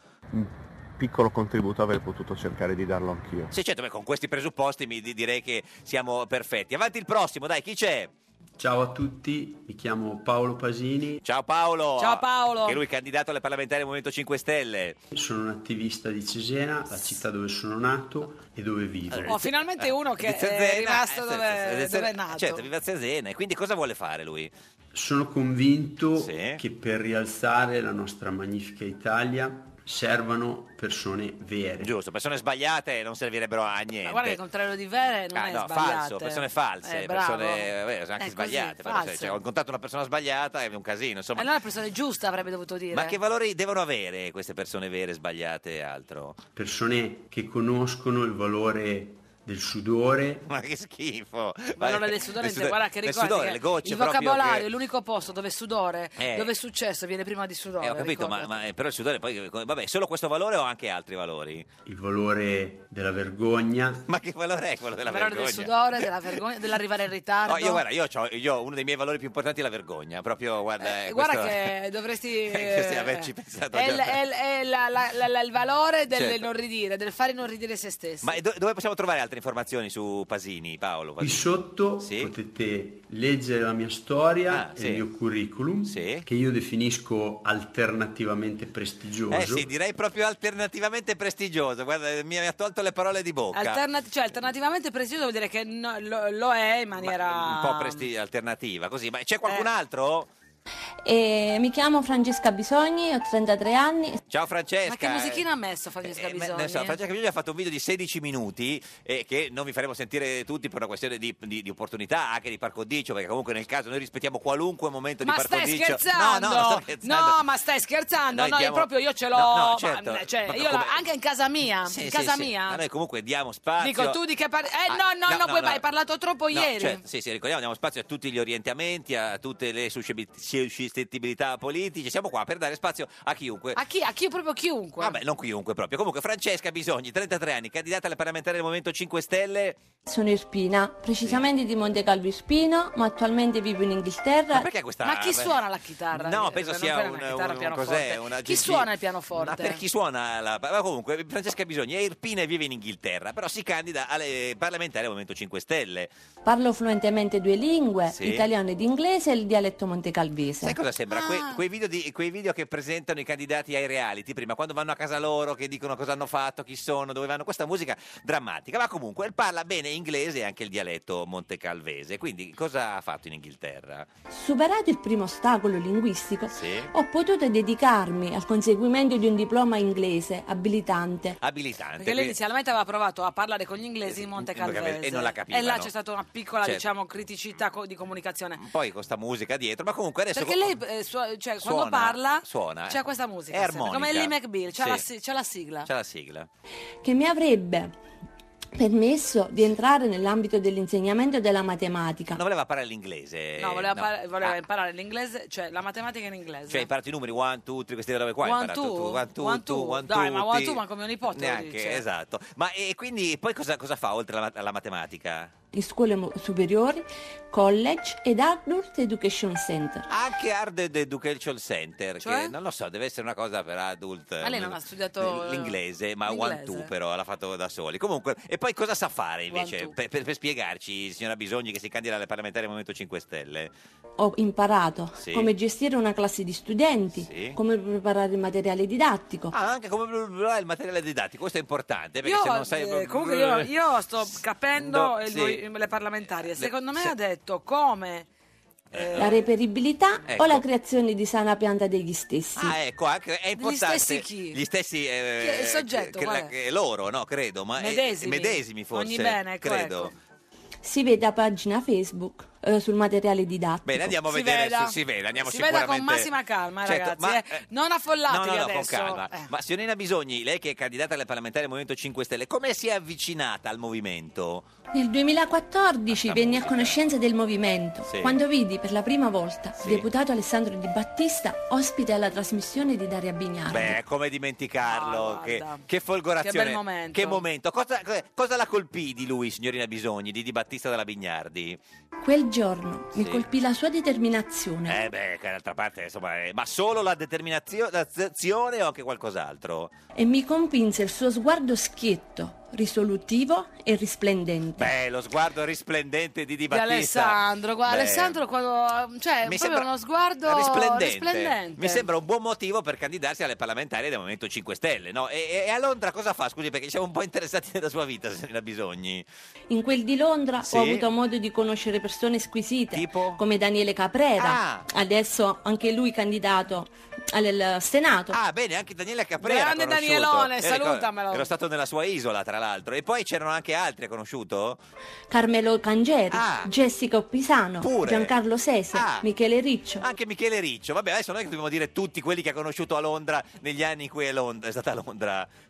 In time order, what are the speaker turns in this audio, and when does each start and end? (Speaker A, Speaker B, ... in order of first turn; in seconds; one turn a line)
Speaker A: 0.3-3.5
Speaker B: 3.5-8.1
Speaker C: 8.6-11.2
Speaker B: 11.2-15.0
Speaker D: 12.0-12.8
Speaker C: 15.1-19.4
Speaker B: 19.1-19.5
Speaker D: 19.3-22.6
Speaker B: 20.2-24.5
Speaker C: 24.9-31.9
Speaker B: 26.1-26.6
Speaker B: 31.8-34.4
Speaker D: 34.0-39.4
Speaker B: 35.3-41.5
Speaker D: 41.4-43.2
Speaker B: 42.9-46.4
Speaker C: 46.5-50.4
Speaker B: 50.4-54.7
Speaker D: 51.8-58.5
Speaker B: 56.2-56.5
Speaker B: 57.8-61.7
Speaker C: 61.8-64.0
Speaker B: 64.1-66.0
Speaker D: 65.0-67.8
Speaker B: 67.5-71.7
Speaker D: 70.8-78.3
Speaker B: 72.5-74.2
Speaker B: 76.1-76.4
Speaker B: 78.2-82.3
Speaker C: 81.2-89.7
Speaker B: 84.5-85.0
Speaker B: 85.8-86.3
Speaker B: 89.3-93.8
Speaker D: 93.5-98.1
Speaker B: 97.0-100.3
Speaker E: 101.0-104.2
Speaker B: 104.3-105.4
Speaker D: 104.8-107.0
Speaker B: 106.0-117.4
Speaker D: 115.2-122.8
Speaker B: 118.3-120.9
Speaker B: 121.8-124.2
Speaker D: 123.8-127.0
Speaker B: 124.9-125.8
Speaker B: 126.5-133.8
Speaker D: 133.7-135.2
Speaker B: 135.0-139.8
Speaker E: 140.1-144.7
Speaker B: 144.5-145.6
Speaker D: 145.0-149.8
Speaker B: 146.1-156.1
Speaker E: 156.4-160.8
Speaker B: 158.1-158.4
Speaker B: 160.6-174.1
Speaker D: 161.1-161.6
Speaker E: 174.3-181.4
Speaker B: 176.5-176.9
Speaker B: 181.4-182.3
Speaker D: 182.0-188.6
Speaker B: 184.1-185.9
Speaker B: 188.6-190.7
Speaker D: 190.3-195.9
Speaker B: 191.6-193.0
Speaker B: 193.5-195.0
Speaker B: 195.8-196.5
Speaker E: 197.0-197.9
Speaker E: 198.7-202.4
Speaker B: 202.3-204.5
Speaker D: 203.6-206.9
Speaker B: 206.7-210.8
Speaker D: 208.4-212.0
Speaker B: 211.3-215.5
Speaker E: 215.7-220.1
Speaker B: 220.1-233.7
Speaker D: 222.2-222.5
Speaker D: 224.4-226.9
Speaker D: 229.5-229.9
Speaker E: 234.2-239.5
Speaker B: 235.2-235.5
Speaker B: 237.2-237.6
Speaker B: 239.5-243.7
Speaker D: 242.2-248.3
Speaker B: 244.8-245.6
Speaker B: 246.5-247.1
Speaker B: 248.9-249.3
Speaker D: 248.9-249.4
Speaker E: 249.2-252.8
Speaker B: 250.3-250.6
Speaker B: 252.6-260.1
Speaker D: 253.6-254.6
Speaker D: 255.4-256.5
Speaker D: 257.8-260.1
Speaker E: 260.8-264.1
Speaker B: 263.9-266.3
Speaker D: 264.3-269.5
Speaker B: 266.8-267.6
Speaker B: 268.3-274.6
Speaker E: 274.9-284.0
Speaker B: 276.1-276.9
Speaker B: 278.1-278.4
Speaker B: 279.8-280.1
Speaker B: 283.7-291.8
Speaker D: 284.8-285.9
Speaker D: 286.4-287.4
Speaker E: 292.2-295.0
Speaker B: 293.2-293.4
Speaker B: 294.9-299.9
Speaker E: 300.1-304.9
Speaker B: 304.8-308.4
Speaker D: 306.7-312.1
Speaker B: 309.4-309.9
Speaker B: 310.4-319.2
Speaker E: 319.7-328.4
Speaker B: 320.6-321.0
Speaker B: 322.9-323.4
Speaker B: 324.4-324.9
Speaker B: 328.3-334.8
Speaker D: 329.4-331.5
Speaker E: 335.3-340.0
Speaker B: 336.3-336.7
Speaker B: 337.8-338.3
Speaker B: 338.9-339.2
Speaker B: 340.0-345.5